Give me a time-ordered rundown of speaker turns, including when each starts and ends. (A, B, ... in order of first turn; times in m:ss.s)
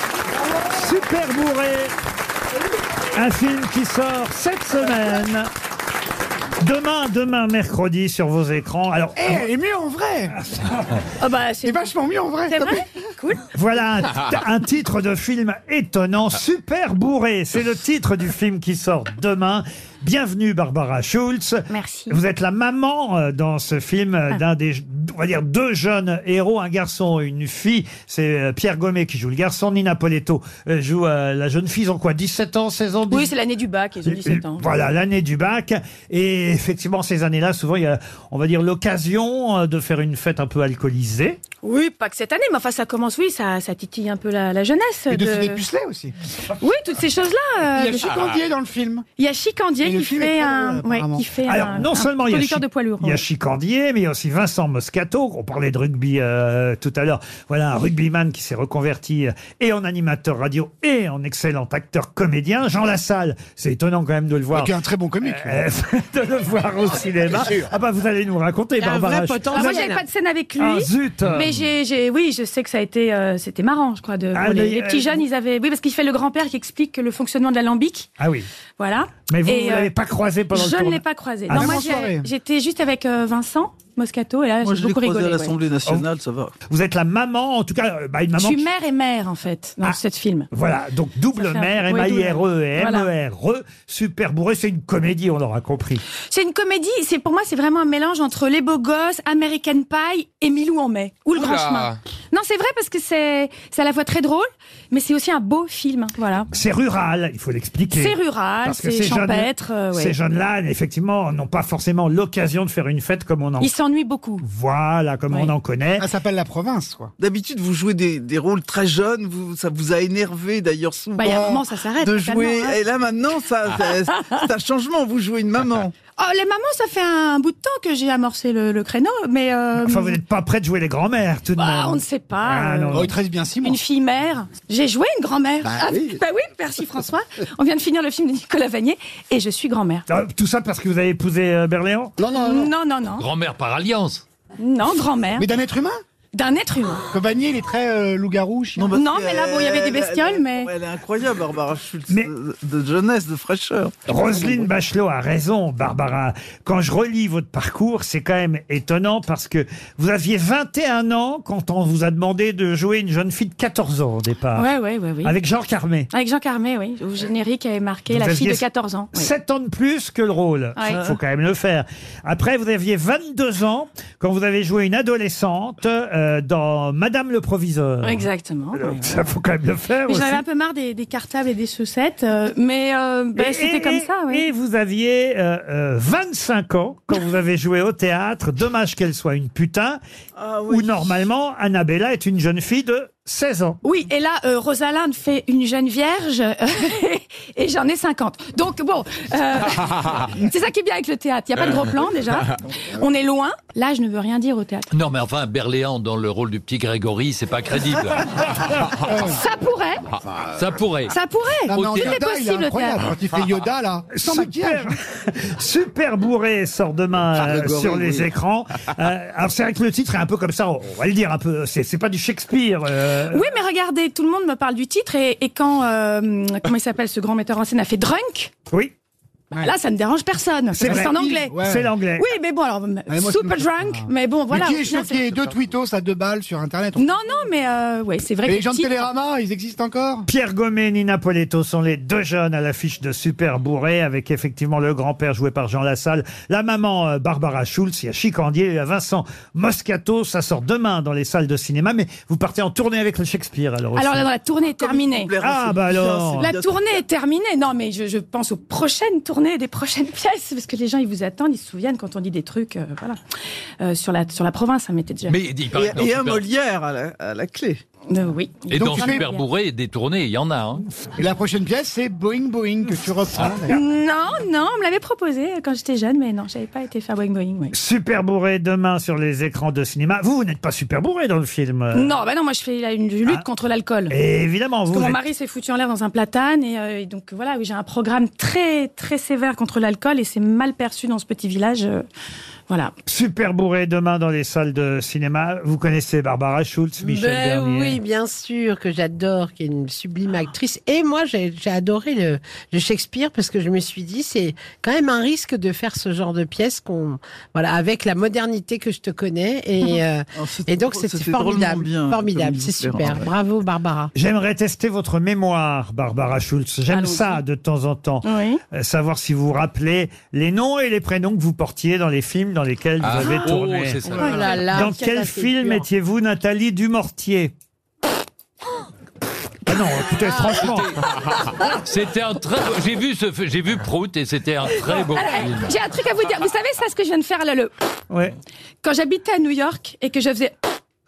0:00.7-0:01.9 A
0:03.1-0:05.5 A
0:06.6-0:09.4 A
0:09.2-0:10.4 B
0:11.2-0:11.9 C
0:11.6-0:12.8 B
0:12.5-0:13.4 C
0:13.5-0:33.3 A
0:21.7-0:22.2 C
0:33.1-0:34.7 C
0:34.0-0:41.4 A
0:41.6-0:45.6 C
0:45.1-0:46.1 B
0:46.6-0:48.4 C
0:47.7-0:49.0 B
0:49.2-0:53.2 C
0:49.8-0:51.2 B
0:51.4-1:09.7 A
1:04.5-1:05.6 B
1:08.8-1:10.0 D
1:09.5-1:18.1 C
1:10.6-1:11.5 A
1:14.3-1:15.2 A
1:18.2-1:18.5 A
1:18.8-1:19.9 C
1:19.3-1:21.9 A
1:20.5-1:25.6 C
1:21.5-1:22.3 B
1:24.6-1:26.5 E
1:26.7-1:28.7 A
1:28.4-1:30.5 C
1:30.5-1:36.0 A
1:31.3-1:33.1 C
1:36.3-1:46.5 C
1:46.5-1:53.7 A
1:47.9-1:50.1 C
1:53.6-1:54.4 C
1:54.4-1:56.1 A
1:56.0-1:57.1 B
1:57.2-2:01.3 E
2:01.2-2:02.8 C
2:01.2-2:01.6 B
2:02.0-2:05.9 E
2:06.2-2:10.2 C
2:09.8-2:13.1 A
2:11.6-2:20.0 C
2:12.9-2:13.8 B
2:15.7-2:16.1 B
2:20.1-2:22.1 A
2:22.2-2:22.7 B
2:22.3-2:23.3 C
2:23.2-2:24.2 F
2:24.6-2:25.5 C
2:25.4-2:26.0 B
2:26.3-2:27.0 C
2:27.1-2:28.9 B
2:28.8-2:34.0 E
2:28.9-2:30.7 C
2:34.1-2:44.7 A
2:44.5-2:45.3 C
2:45.2-2:46.1 A
2:46.1-2:49.3 C
2:48.1-3:00.4 A
2:50.8-2:51.0 C
2:58.0-2:59.2 C
3:00.0-3:04.5 C
3:03.4-3:10.0 A
3:10.4-3:10.8 E
3:10.7-3:13.8 A
3:13.8-3:24.9 C
3:24.9-3:28.2 F
3:29.1-3:29.4 B
3:29.2-3:30.0 C
3:30.4-3:31.1 F
3:31.1-3:33.1 C
3:31.6-3:34.9 B
3:31.7-3:32.1 F
3:34.1-3:43.4 A
3:43.3-3:48.5 C
3:49.5-3:51.6 C
3:50.7-3:51.9 B
3:50.8-3:52.3 A
3:52.1-3:55.4 C
3:53.1-3:57.0 B
3:57.0-3:59.1 C
3:58.4-4:00.3 B
4:00.3-4:14.3 A
4:13.9-4:15.3 C
4:14.8-4:16.7 E
4:15.4-4:16.5 A
4:16.3-4:23.2 C
4:23.8-4:25.4 C
4:25.3-4:26.5 F
4:25.8-4:27.8 E
4:28.1-4:29.4 C
4:28.7-4:30.8 F
4:28.7-4:29.2 B
4:31.2-4:33.8 B
4:33.7-4:37.7 C
4:37.7-4:42.2 A
4:41.9-4:44.2 C
4:44.1-4:45.2 A
4:44.9-4:52.0 C
4:53.0-4:58.0 A
4:57.0-5:14.1 D
5:10.4-5:13.3 E
5:14.1-5:24.0 A
5:16.9-5:17.4 C
5:18.2-5:18.6 C
5:23.0-5:24.4 F
5:23.2-5:23.5 C
5:24.1-5:25.1 C
5:24.3-5:25.8 D
5:24.6-5:27.5 A
5:29.6-5:30.9 A
5:30.6-5:31.0 F
5:31.8-5:35.7 F
5:34.7-5:37.7 C
5:38.1-5:38.3 A
5:38.8-5:40.6 C